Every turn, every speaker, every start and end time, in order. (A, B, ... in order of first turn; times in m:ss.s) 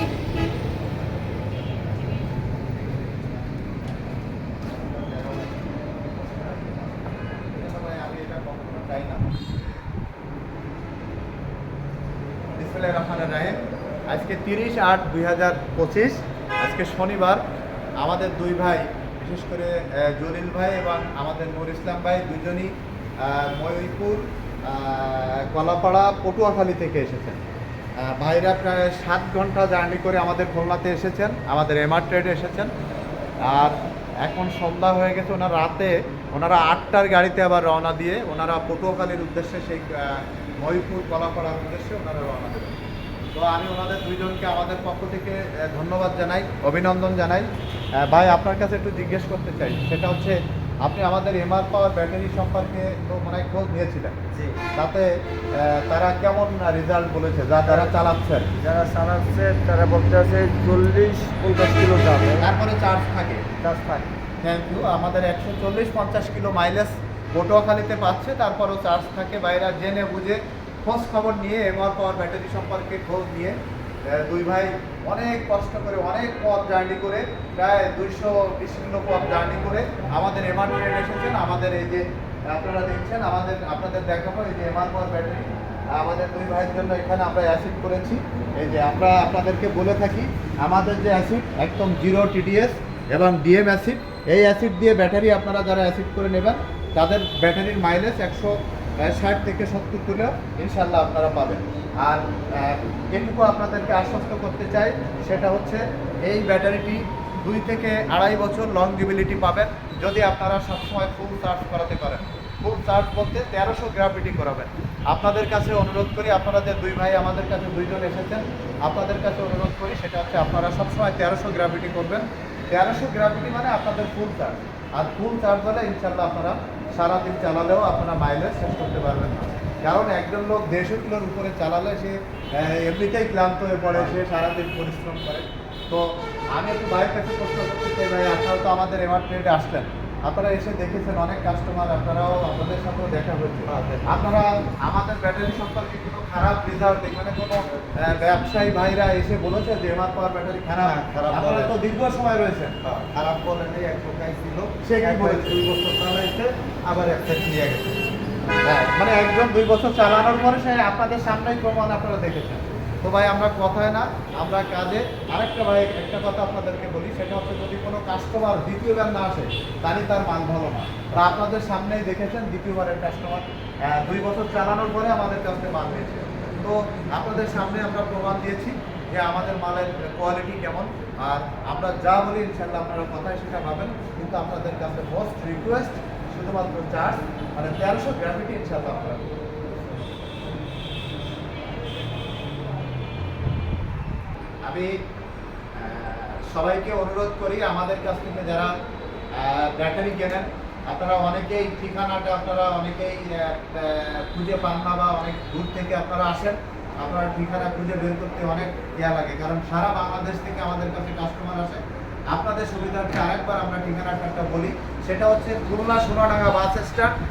0:00.3-0:09.7 A
0:12.6-0:17.4 A
0:18.0-0:27.4 A
0:28.0-0:32.7 A
0:33.5-0:42.8 A
0:43.3-0:54.2 A
0:54.3-0:54.6 B
0:54.7-0:58.5 A
0:57.6-0:57.9 B
0:58.6-1:02.4 B
1:02.4-1:03.4 A
1:03.6-1:04.1 B
1:04.4-2:32.8 A
2:23.7-2:24.2 B
2:27.7-2:28.2 B
2:30.8-2:31.7 B
2:32.8-2:37.3 B
2:34.8-2:35.7 A
2:36.9-2:38.0 A
2:38.6-3:09.3 A
3:14.6-3:15.0 A
3:15.7-3:18.7 A
3:19.3-3:37.1 A